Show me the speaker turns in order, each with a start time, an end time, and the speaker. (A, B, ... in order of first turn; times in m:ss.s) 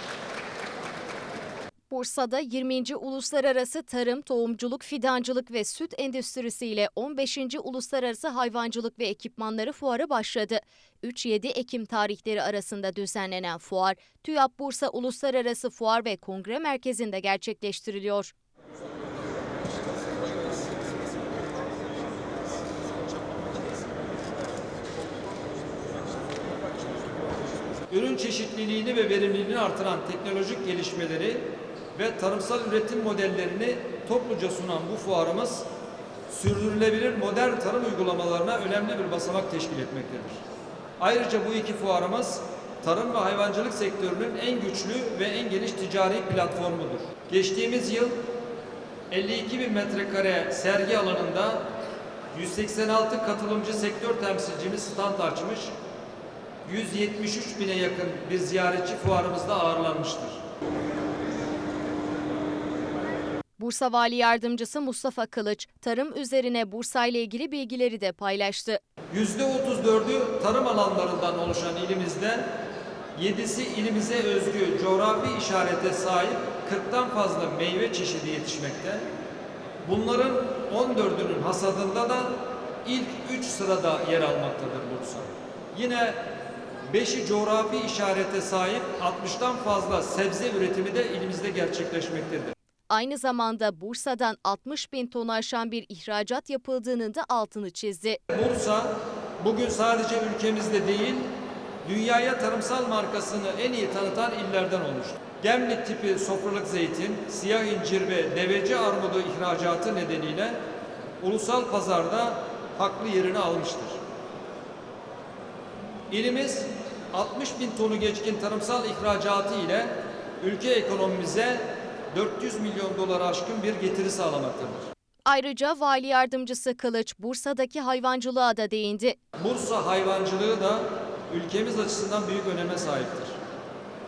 0:01.9-0:18.3 A
0:27.9-0:35.7 B
0:36.3-0:40.4 B
0:41.0-0:48.2 B
0:49.1-0:51.6 B
0:52.3-0:55.7 B
0:56.7-1:00.4 B
1:03.6-1:08.8 A
1:09.1-1:12.5 B
1:13.2-1:19.1 B
1:19.8-1:26.2 B
1:26.9-1:32.5 B
1:32.9-1:38.2 A
1:38.3-1:41.3 B
1:41.8-1:50.6 B
1:51.2-1:54.0 B
1:56.1-2:04.9 B
2:05.3-2:09.2 A
2:09.4-2:13.4 B